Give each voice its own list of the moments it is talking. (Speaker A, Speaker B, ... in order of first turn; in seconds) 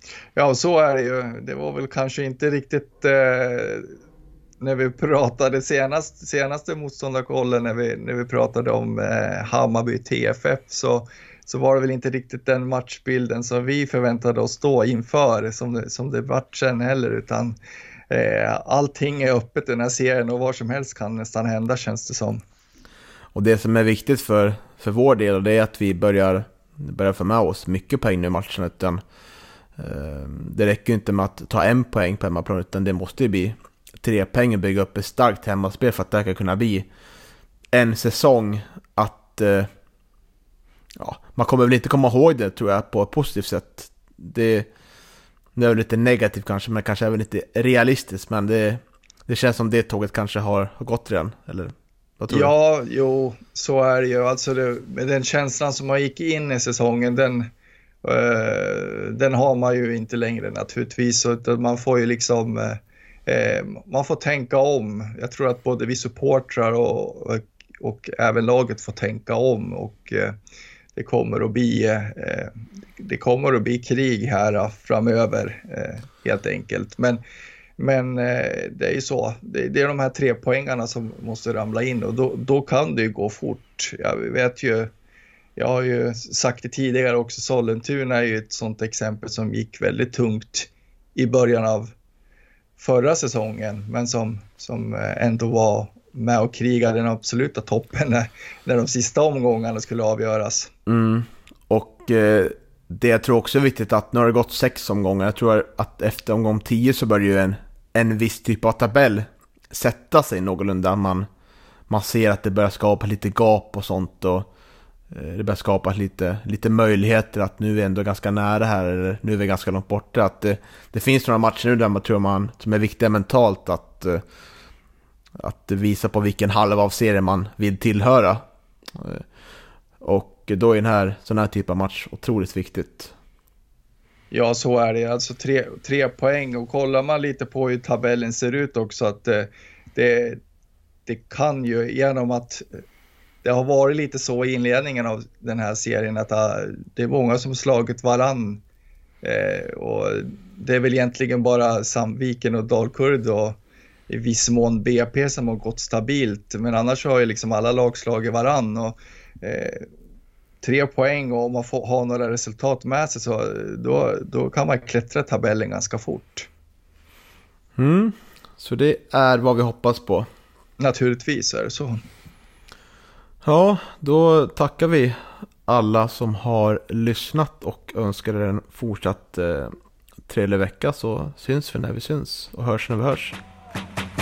Speaker A: 0.4-3.9, 4.6-17.6, 18.1-22.4, 52.3-57.5, 58.0-70.3, 71.0-77.2, 77.8-84.9, 85.6-91.9, 92.8-100.7, 134.3-140.4, 141.1-142.7, 143.4-148.6, 149.2-153.6, 154.1-159.9, 160.6-166.5, 170.8-172.0
Speaker B: 23.3-29.0, 29.8-36.9, 37.7-39.7, 41.0-44.7, 45.6-52.5, 100.9-111.3, 111.9-114.5, 115.1-124.2, 125.4-128.4, 128.9-129.3, 130.0-133.1, 167.8-170.3, 173.4-179.7, 180.3-183.4